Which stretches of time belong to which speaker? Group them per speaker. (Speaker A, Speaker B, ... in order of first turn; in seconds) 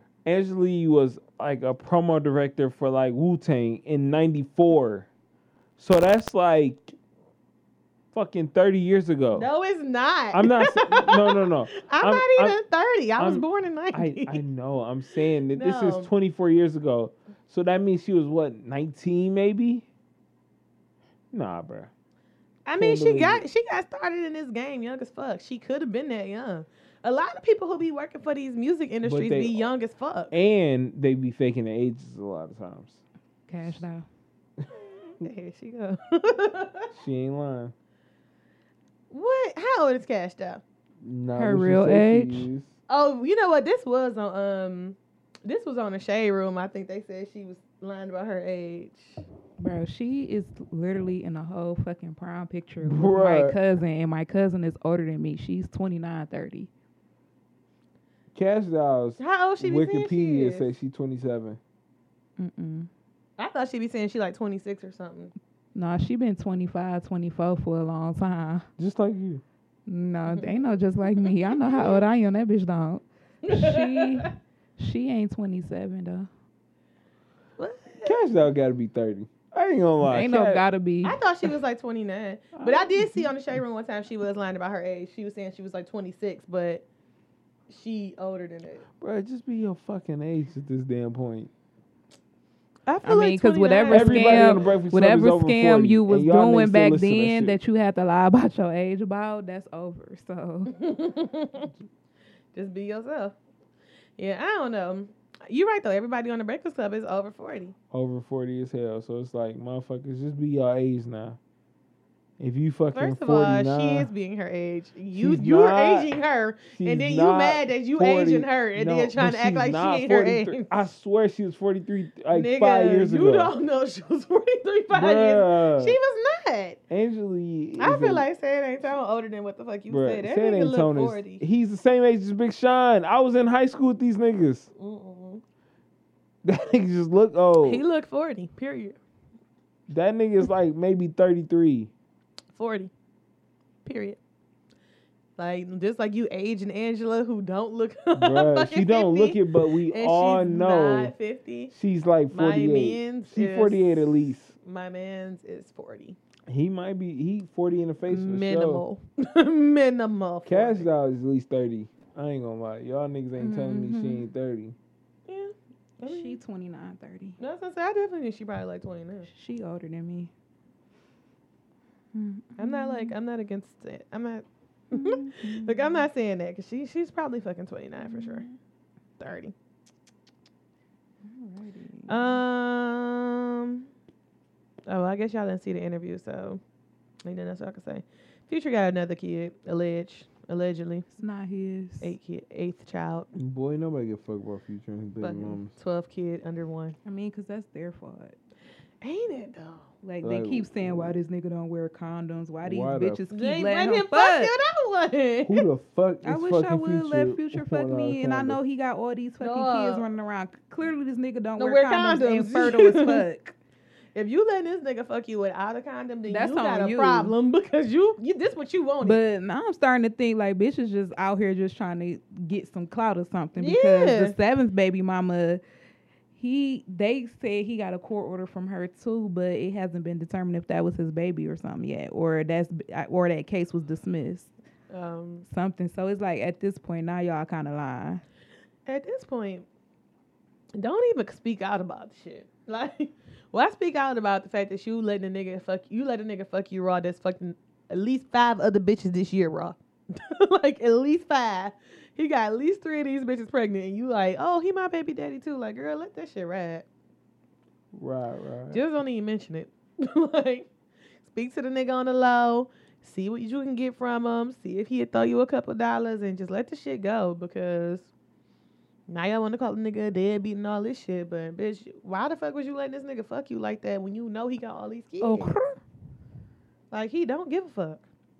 Speaker A: 0.2-5.1, 5.8-6.9, 8.1-9.5, 10.3-12.6, 13.2-19.8, 21.3-21.9, 22.7-23.4, 29.0-29.7, 30.3-33.0, 36.9-37.7, 41.0-42.7, 52.8-53.5, 58.3-61.6, 68.8-69.4, 78.0-80.6, 82.5-83.3, 89.0-91.5, 93.9-97.6, 107.9-111.4, 112.4-114.1, 115.2-116.1, 116.7-123.5, 124.9-126.0, 126.9-128.2, 129.9-134.7, 136.4-137.8, 139.9-141.9, 148.2-151.1, 151.7-154.5, 156.5-158.8, 160.4-164.8, 193.3-195.7, 200.2-201.2, 202.6-203.2, 205.4-208.6, 257.9-258.8
Speaker B: 9.3-14.4, 15.5-16.1, 22.6-30.3, 35.2-36.9, 39.1-40.6, 42.9-49.2, 59.2-60.7, 63.4-65.3, 70.3-72.0, 73.5-74.3, 77.6-78.2, 81.0-86.8, 87.7-88.8, 92.8-94.6, 100.7-101.7, 102.5-103.3, 104.2-107.7, 112.9-120.9, 122.3-126.8, 127.8-131.4, 134.8-135.4, 137.6-139.0, 142.5-142.9, 143.8-144.2, 145.4-151.7, 152.3-156.2, 158.1-160.9, 165.3-166.4, 167.4-169.3, 172.6-178.4, 179.2-179.5, 182.1-183.9, 184.8-186.6, 187.2-191.1, 192.0-193.3, 195.2-196.9, 199.0-199.9, 203.3-205.7, 209.4-210.1, 211.6-213.2, 214.1-219.2, 223.6-224.3, 234.9-235.4, 238.8-239.7, 240.8-256.9, 258.7-260.7, 261.2-268.1, 269.1-275.5, 276.9-278.0
Speaker C: 33.5-34.0, 41.3-42.5, 49.6-56.7, 62.4-62.9, 65.7-68.7, 69.9-76.3, 80.1-81.2, 93.0-100.7, 163.4-164.3, 166.0-167.4, 169.3-170.3, 172.1-173.1, 174.9-176.0, 178.0-178.5, 181.2-182.4, 191.1-192.1, 197.0-198.3, 200.0-204.5, 206.2-213.5, 216.3-217.3, 219.0-225.6, 226.3-234.5, 235.5-238.2, 275.2-275.8